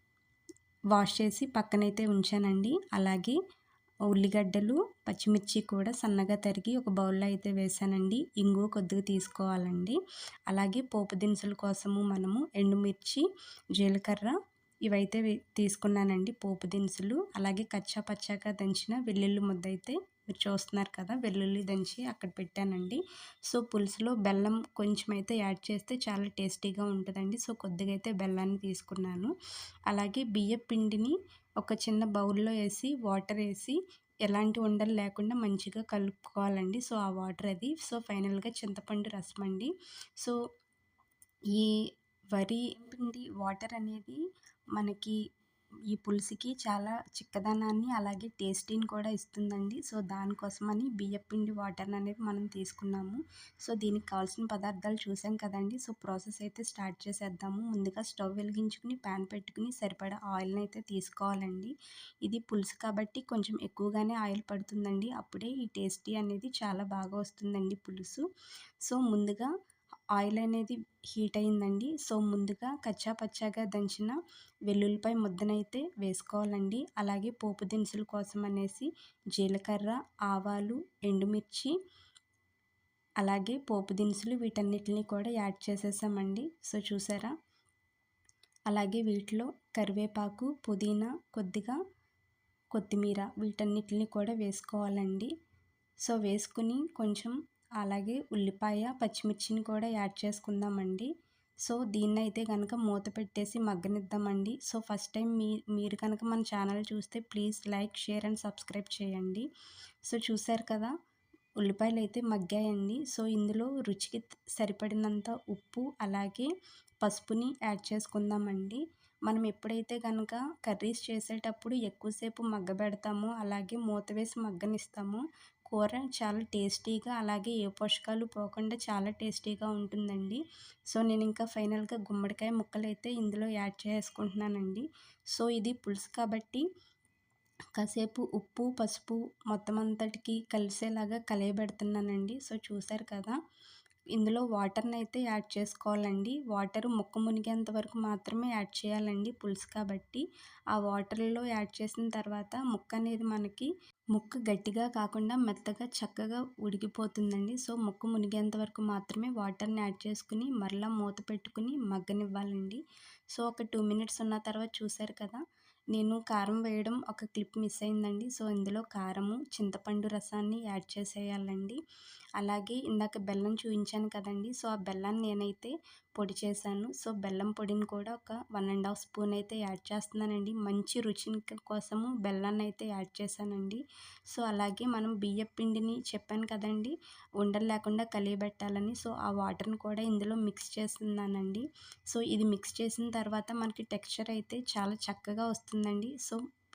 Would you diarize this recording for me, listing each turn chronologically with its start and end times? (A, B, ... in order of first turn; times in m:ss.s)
0:00.9-0:03.4 A
0:04.1-0:10.0 A
0:10.5-0:14.3 A
0:14.9-0:29.3 A
0:29.9-0:40.4 A
0:41.5-0:41.8 A
0:42.3-0:44.2 A
0:44.7-0:45.2 A
0:45.9-1:08.2 A
1:08.8-1:09.5 A
1:10.1-1:14.2 A
1:14.7-1:21.7 A
1:23.2-1:27.3 A
1:28.7-1:31.8 A
1:32.7-1:35.3 A
1:36.0-1:41.1 A
1:41.6-1:49.4 A
1:50.1-1:50.9 A
1:51.6-1:56.5 A
1:57.0-2:10.4 A
2:10.9-2:16.6 A
2:17.7-2:23.4 A
2:24.1-2:42.8 A
2:43.3-2:45.4 A
2:45.9-2:51.8 A
2:52.4-3:16.4 A